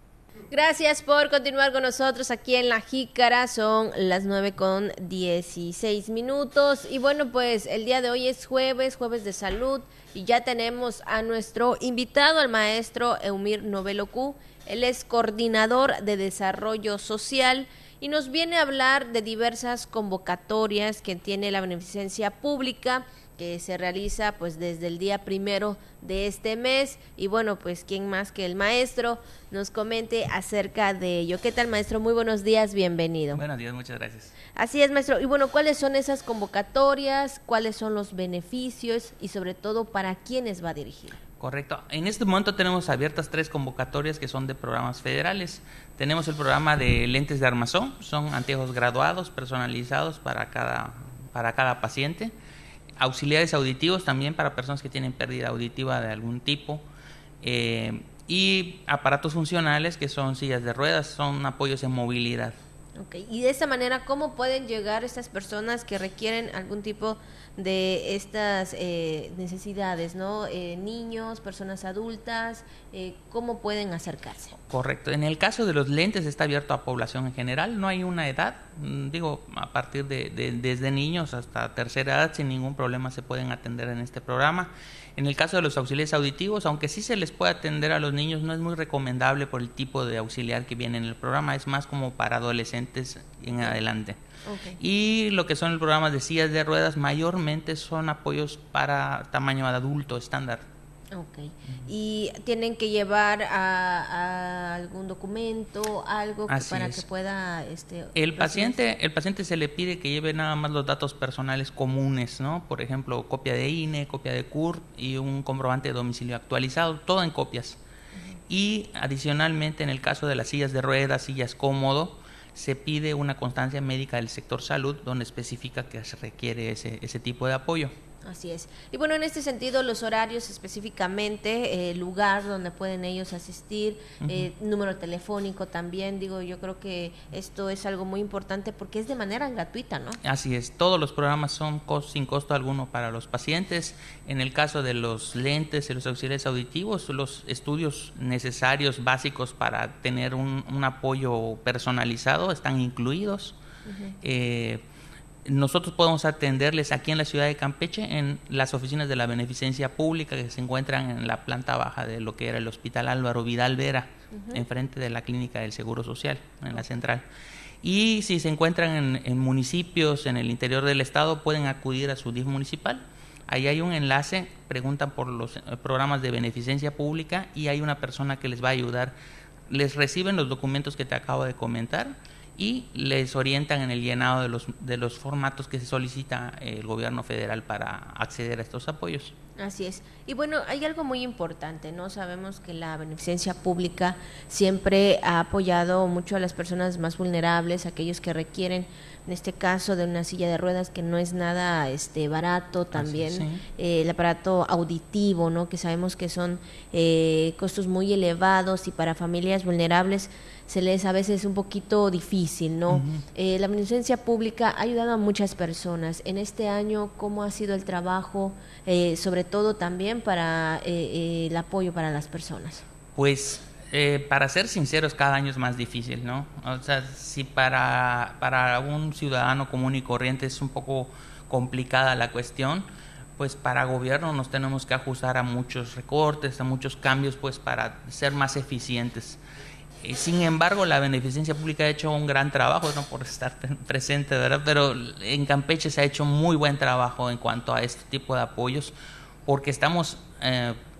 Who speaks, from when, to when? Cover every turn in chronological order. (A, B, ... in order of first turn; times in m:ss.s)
0:00.5-0:33.4 A
0:33.4-0:34.4 B
0:34.6-0:41.2 A
0:41.4-0:52.3 B
0:53.0-0:56.8 B
0:57.4-1:02.6 B
1:03.0-1:14.6 A
1:14.7-1:34.2 B
1:34.4-1:34.8 A
1:34.8-1:40.7 B
1:41.1-1:48.8 A
1:46.5-1:47.0 B
1:48.2-1:57.8 B
1:58.5-2:07.9 B
2:08.2-2:20.2 A
2:14.2-2:14.5 B
2:20.2-2:33.6 B
2:33.9-2:34.1 A
2:34.2-2:34.8 B
2:35.4-2:47.2 B
2:44.3-2:44.6 A
2:47.8-2:59.2 B
2:59.7-3:09.3 B
3:09.6-3:42.8 A
3:23.0-3:23.6 B
3:32.9-3:33.2 B
3:43.2-3:52.9 B
3:53.4-3:59.4 B
4:00.0-4:08.9 B
4:09.5-4:10.8 B